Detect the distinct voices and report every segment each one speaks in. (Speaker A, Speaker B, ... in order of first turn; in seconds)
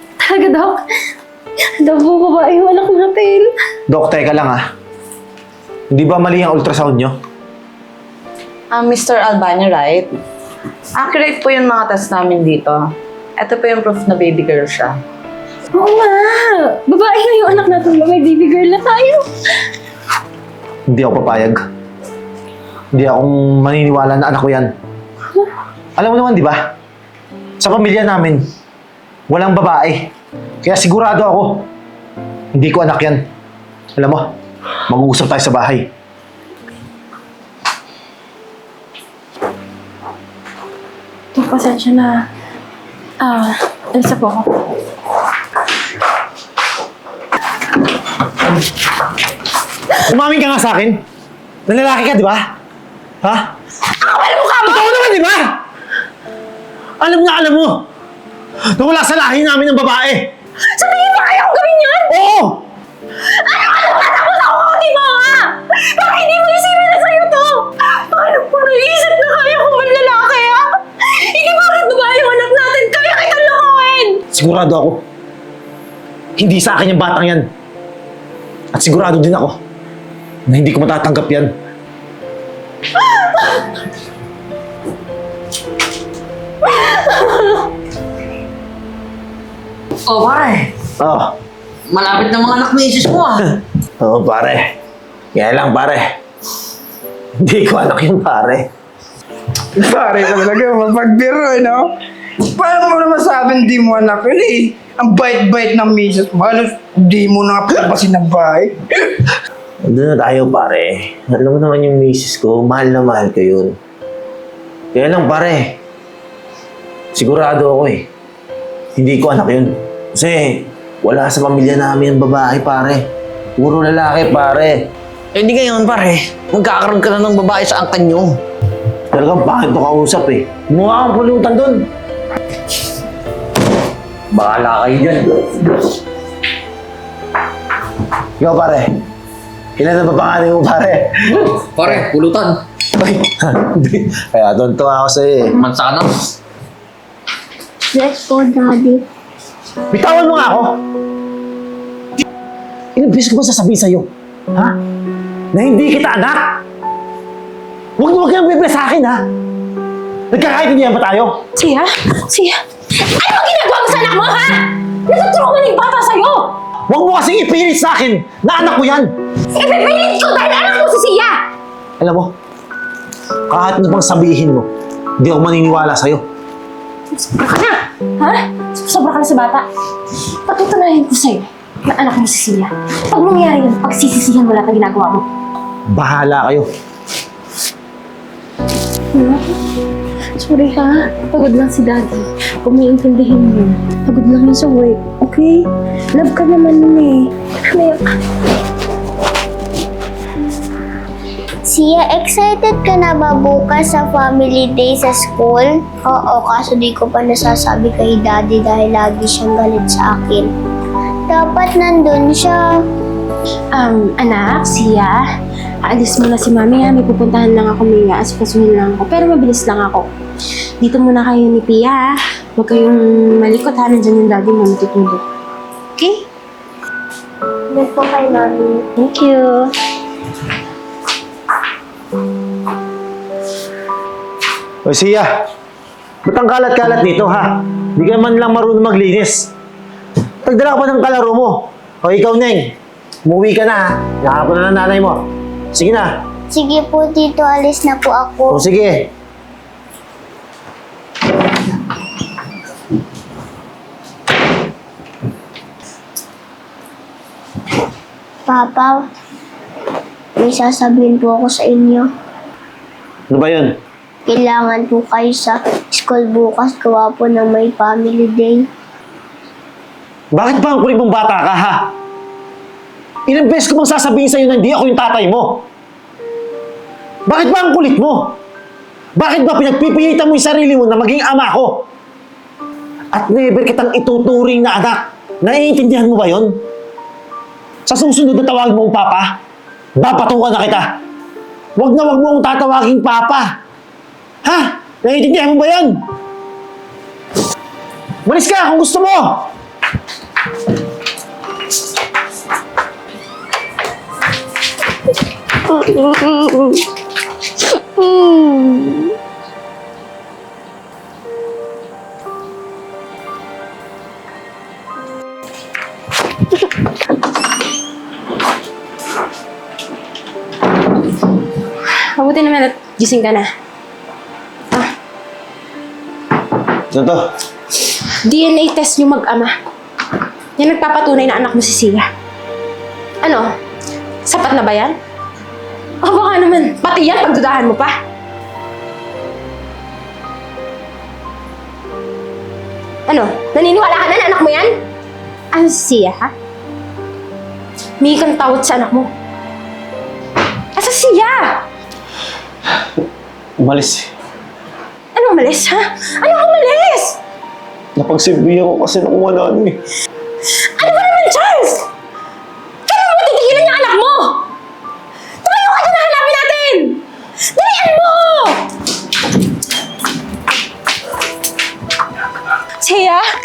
Speaker A: 0.2-0.8, 1.8-3.5, 15.7-19.3, 41.3-42.2, 43.2-44.5, 53.9-55.0, 60.7-62.2, 63.2-74.2, 86.7-87.6, 161.6-166.5, 169.6-171.4, 177.1-179.7, 180.5-185.3, 189.1-189.6, 190.4-198.1, 213.7-215.2, 215.9-220.1, 220.8-225.2, 226.0-226.2, 229.0-229.7, 322.2-323.5, 328.2-329.5, 330.6-332.1, 333.2-333.5, 334.3-335.0, 336.0-338.0, 343.1-344.7, 345.5-346.3, 348.0-349.1, 350.8-351.6, 355.1-357.2, 360.8-361.9, 362.9-364.4, 365.4-367.0, 367.6-368.6, 372.8-373.3
Speaker B: 3.9-4.6, 5.9-7.2, 20.9-21.6, 22.9-24.7, 26.0-26.7, 27.6-28.4, 29.3-30.1, 30.6-31.6, 32.5-33.2, 34.0-34.3, 34.9-35.9, 50.0-51.0, 51.7-52.5, 53.2-53.5, 54.6-55.5, 57.0-57.8, 58.7-60.3, 62.1-62.6, 74.3-75.0, 76.4-77.5, 78.7-79.6, 80.5-81.5, 91.0-91.3, 94.0-94.7, 95.3-96.1, 97.4-98.7, 109.8-113.8, 114.9-115.8, 117.2-118.1, 119.0-123.1, 123.6-124.8, 129.1-131.9, 138.4-138.9, 139.8-142.1, 143.0-145.6, 149.9-150.8, 152.9-154.8, 155.5-156.6, 158.0-159.2, 160.3-161.4, 166.9-169.1, 172.0-172.3, 173.5-176.2, 185.9-186.7, 234.8-235.3, 236.2-239.5, 240.4-242.7, 243.3-245.2, 245.7-246.1, 248.5-249.0, 263.3-263.8, 270.3-271.9, 273.3-275.6, 277.3-278.4, 279.2-281.9, 283.1-286.6, 287.9-289.4, 290.0-291.0, 291.8-293.5, 294.4-296.0, 298.2-299.5, 326.9-327.3, 353.6-354.1, 358.0-359.8
Speaker C: 8.7-10.1, 11.0-15.0
Speaker D: 90.1-90.7, 91.9-93.4, 125.3-128.4, 134.4-135.2, 141.5-142.6, 145.6-146.1
Speaker E: 99.8-101.9, 102.5-108.8
Speaker F: 147.9-149.0, 201.7-210.5, 211.3-212.7, 227.7-229.1, 246.5-248.6, 258.5-259.0, 260.4-262.1, 264.3-268.6